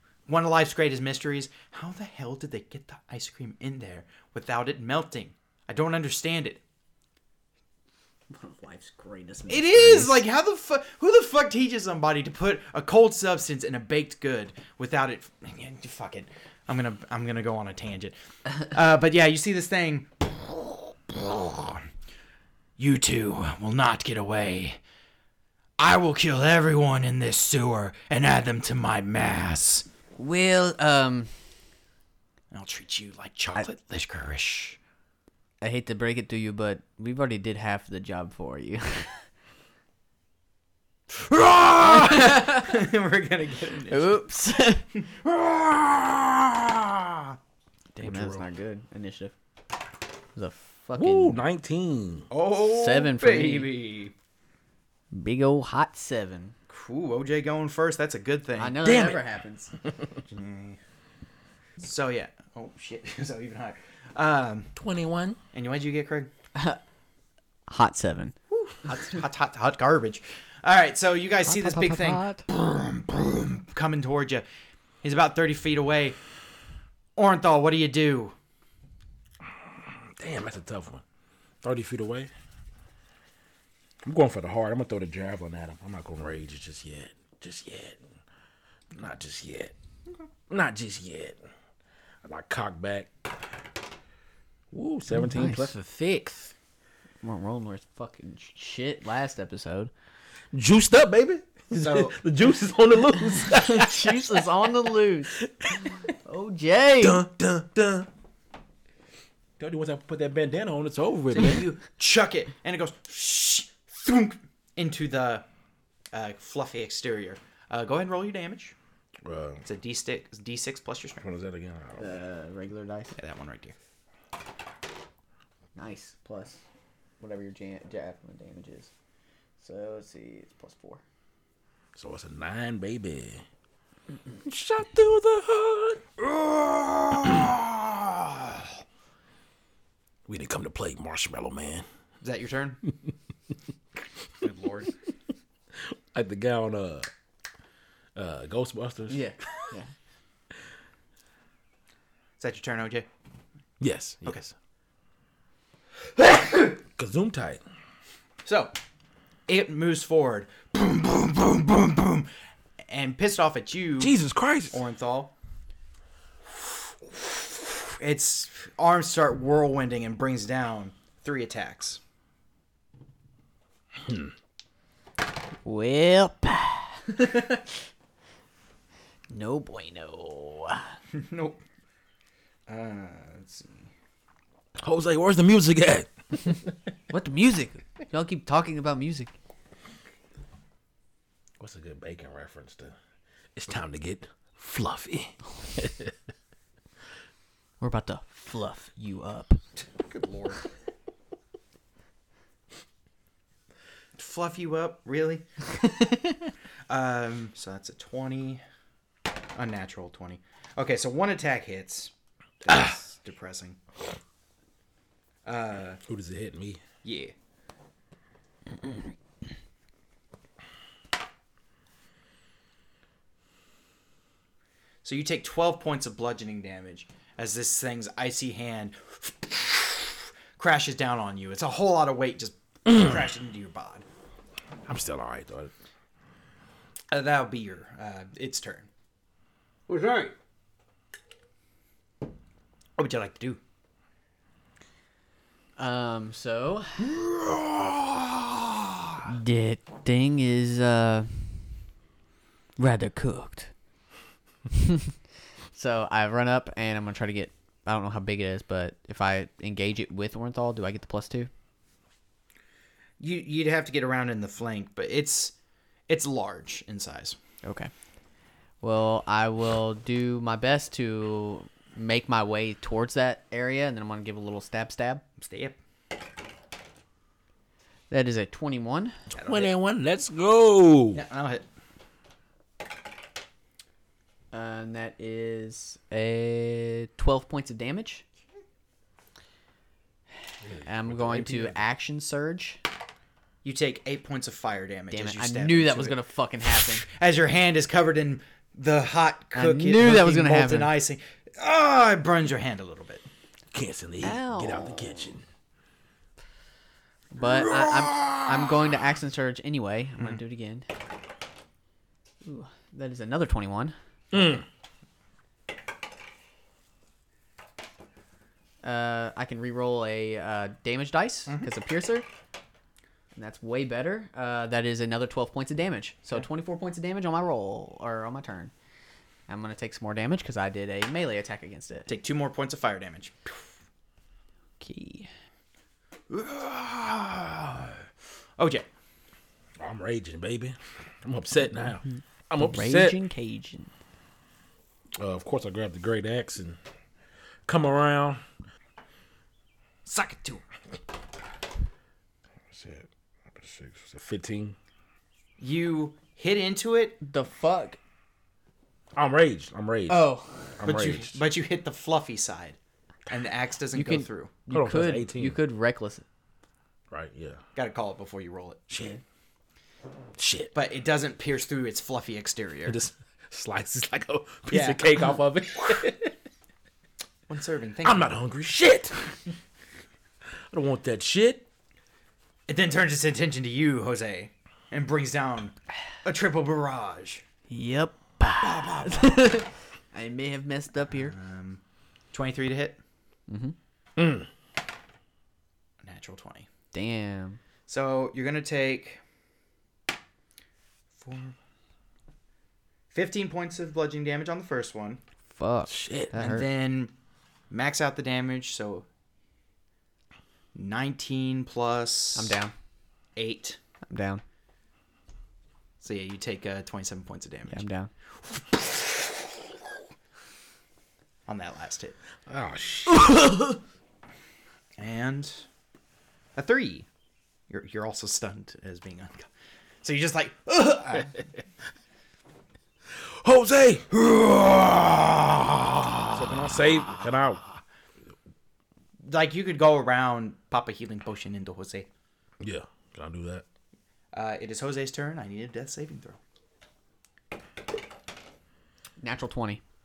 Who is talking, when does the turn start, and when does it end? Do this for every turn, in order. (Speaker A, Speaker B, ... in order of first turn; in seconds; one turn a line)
Speaker A: 0.3-6.6
Speaker B: 8.3-10.2
Speaker A: 9.5-21.8
Speaker A: 22.8-24.8
Speaker A: 25.8-29.9
Speaker B: 30.2-31.3
Speaker A: 32.5-34.8
Speaker B: 35.6-39.2
Speaker A: 41.1-44.1
Speaker B: 42.1-42.7
Speaker B: 43.9-44.9
Speaker A: 45.0-47.4
Speaker B: 48.0-49.3
Speaker C: 48.0-48.5
Speaker B: 50.4-51.4
Speaker C: 51.0-52.3
Speaker A: 52.3-54.1
Speaker B: 52.5-53.7
Speaker B: 55.1-56.5
Speaker A: 56.7-58.8
Speaker B: 58.6-59.7
Speaker C: 58.8-59.2
Speaker C: 59.8-60.2
Speaker A: 60.3-60.8
Speaker A: 61.8-64.7
Speaker C: 64.7-65.4
Speaker A: 65.5-66.3
Speaker B: 66.5-66.8
Speaker B: 67.7-68.3
Speaker A: 68.5-74.4
Speaker B: 71.5-72.4
Speaker A: 75.0-76.2
Speaker A: 77.2-78.3
Speaker C: 79.8-81.0
Speaker C: 81.6-82.3
Speaker C: 84.0-88.0
Speaker C: 88.9-89.7
Speaker C: 90.5-91.4
Speaker C: 92.2-93.1
Speaker C: 94.7-95.7
Speaker B: 95.1-96.5
Speaker B: 97.2-99.9
Speaker C: 100.5-104.5
Speaker A: 101.7-102.2
Speaker B: 103.6-105.4
Speaker C: 105.4-106.0
Speaker B: 106.1-107.2
Speaker C: 107.0-108.1
Speaker C: 109.6-111.7
Speaker A: 111.3-115.4
Speaker A: 116.1-118.8
Speaker C: 119.2-119.6
Speaker A: 119.6-121.2
Speaker C: 121.2-122.1
Speaker B: 122.0-123.1
Speaker A: 123.2-123.7
Speaker B: 125.8-126.6
Speaker B: 127.2-128.9
Speaker B: 129.6-131.0
Speaker C: 131.9-133.4
Speaker C: 134.4-136.1
Speaker A: 136.2-138.6
Speaker C: 140.3-141.8
Speaker A: 142.2-142.8
Speaker A: 144.4-144.9
Speaker C: 145.7-147.1
Speaker C: 148.1-149.2
Speaker B: 149.1-149.9
Speaker A: 152.4-153.1
Speaker C: 153.8-154.4
Speaker A: 156.2-156.7
Speaker C: 157.0-157.6
Speaker A: 158.4-158.7
Speaker A: 159.5-162.3
Speaker A: 162.9-164.1
Speaker C: 164.0-164.8
Speaker A: 164.7-165.3
Speaker A: 167.1-172.0
Speaker B: 175.6-177.6
Speaker B: 179.3-181.0
Speaker A: 181.1-181.6
Speaker A: 182.7-183.9
Speaker C: 184.8-186.7
Speaker B: 187.1-189.3
Speaker C: 191.6-192.9
Speaker C: 193.5-196.1
Speaker B: 197.8-199.6
Speaker A: 199.8-200.6
Speaker A: 204.2-205.4
Speaker A: 206.9-208.6
Speaker A: 209.6-212.1
Speaker A: 212.6-213.8
Speaker A: 215.4-216.0
Speaker C: 216.0-216.8
Speaker A: 217.0-217.3
Speaker A: 225.0-234.0
Speaker C: 234.8-235.7
Speaker A: 237.1-238.9
Speaker A: 239.9-240.3
Speaker A: 243.0-243.6
Speaker B: 245.8-247.0
Speaker A: 247.1-249.2
Speaker B: 249.3-251.6
Speaker B: 252.8-253.7
Speaker B: 254.7-255.1
Speaker B: 255.7-261.5
Speaker A: 263.2-265.5
Speaker A: 266.1-267.4
Speaker B: 267.6-267.9
Speaker B: 268.8-275.2
Speaker A: 275.4-275.8
Speaker B: 278.1-279.2
Speaker A: 279.3-279.7
Speaker C: 279.4-281.2
Speaker A: 281.1-281.6
Speaker B: 284.5-288.2
Speaker C: 290.6-291.8
Speaker B: 290.9-292.8
Speaker A: 293.6-296.1
Speaker B: 295.1-297.1
Speaker A: 296.8-303.2
Speaker B: 299.5-300.9
Speaker C: 303.7-305.4
Speaker B: 304.2-305.3
Speaker B: 307.3-310.9
Speaker B: 312.4-313.9
Speaker C: 314.3-314.6
Speaker B: 318.8-322.3
Speaker B: 323.3-328.7
Speaker B: 329.5-332.1
Speaker A: 332.1-333.4
Speaker B: 334.8-335.3
Speaker A: 336.3-338.0
Speaker A: 338.6-338.9
Speaker C: 339.8-343.2
Speaker B: 342.6-343.9
Speaker C: 345.1-346.8
Speaker C: 347.6-348.4
Speaker A: 350.1-350.6
Speaker C: 352.7-354.8
Speaker A: 355.6-357.2
Speaker B: 357.2-358.0
Speaker C: 359.1-361.4
Speaker B: 360.1-360.7
Speaker A: 360.8-362.8
Speaker A: 363.3-364.5
Speaker B: 363.9-366.2
Speaker C: 364.7-365.6
Speaker C: 367.1-367.6
Speaker A: 367.8-368.8
Speaker C: 368.9-369.2
Speaker C: 370.4-370.7
Speaker A: 370.7-373.0
Speaker C: 372.9-376.4
Speaker A: 374.7-375.0
Speaker A: 377.5-378.3
Speaker C: 378.0-379.2
Speaker C: 380.7-381.7
Speaker A: 382.7-387.4
Speaker B: 387.7-391.4
Speaker A: 388.6-389.5
Speaker A: 391.1-391.8
Speaker A: 392.3-393.0
Speaker B: 393.5-393.7
Speaker C: 394.2-394.5
Speaker A: 396.0-396.7
Speaker B: 396.9-397.6
Speaker A: 397.9-399.2
Speaker A: 401.1-401.5
Speaker A: 403.1-405.2
Speaker B: 405.5-406.7
Speaker C: 405.9-406.3
Speaker A: 406.3-407.1
Speaker A: 407.7-409.1
Speaker A: 410.7-412.6
Speaker B: 412.3-412.7
Speaker A: 413.4-413.8
Speaker B: 414.1-414.4
Speaker A: 416.0-417.8
Speaker B: 417.7-418.1
Speaker A: 421.5-422.1
Speaker C: 422.5-423.7
Speaker B: 423.2-423.7
Speaker A: 425.0-425.6
Speaker A: 426.6-427.1
Speaker A: 427.7-429.5
Speaker A: 430.0-431.4
Speaker C: 433.1-434.1
Speaker A: 434.1-436.4
Speaker C: 436.3-437.6
Speaker A: 439.3-442.1
Speaker C: 442.6-443.6
Speaker A: 444.3-446.4
Speaker B: 449.2-449.8